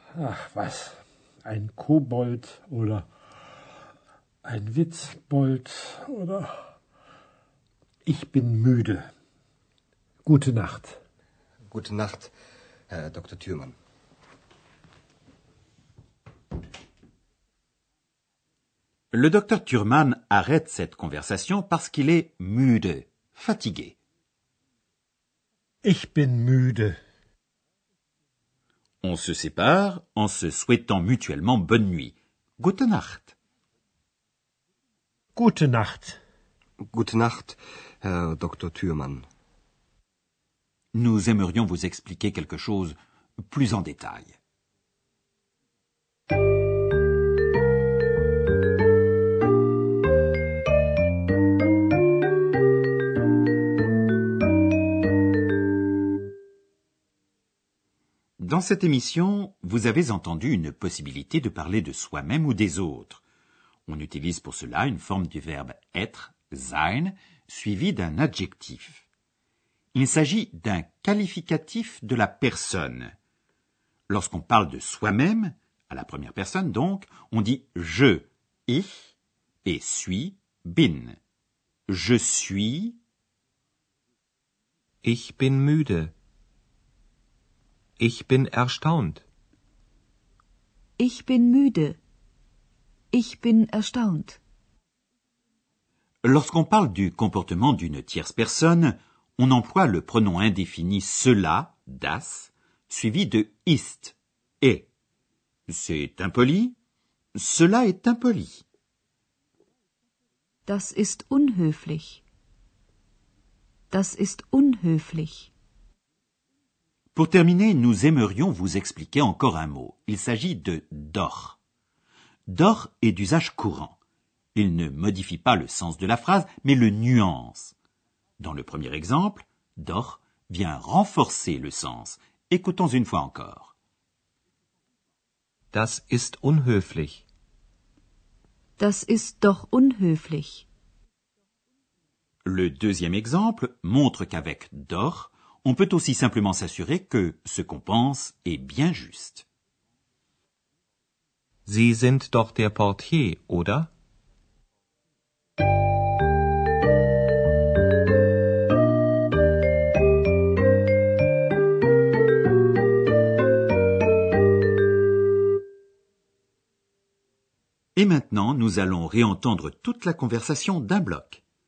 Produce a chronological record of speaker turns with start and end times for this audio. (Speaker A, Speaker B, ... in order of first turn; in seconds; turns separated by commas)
Speaker A: 0.1-3.1, Speaker A: 4.4-6.6, Speaker A: 8.0-9.1, Speaker A: 10.2-11.0, Speaker B: 11.7-12.3, Speaker B: 12.9-13.7, Speaker C: 19.1-23.9, Speaker A: 25.8-27.0, Speaker C: 29.0-33.3, Speaker A: 35.3-36.2, Speaker B: 36.9-39.2, Speaker C: 40.9-43.0, Speaker C: 43.5-44.4, Speaker C: 58.4-63.2, Speaker C: 63.9-69.0, Speaker C: 69.9-73.1, Speaker C: 74.1-79.1, Speaker C: 79.6-81.2, Speaker C: 81.9-83.0, Speaker D: 85.0-86.1, Speaker D: 88.0-89.2, Speaker E: 91.0-92.0, Speaker E: 93.1-94.4, Speaker C: 96.2-104.9, Speaker C: 105.7-106.8, Speaker C: 107.4-108.6, Speaker E: 110.7-112.2, Speaker E: 113.9-115.5, Speaker C: 117.1-121.6, Speaker C: 122.5-124.0, Speaker C: 124.5-127.7, Speaker C: 128.4-133.7, Speaker D: 135.7-137.2, Speaker E: 138.8-140.6, Speaker C: 142.4-149.4, Speaker D: 151.7-153.9, Speaker C: 167.9-171.4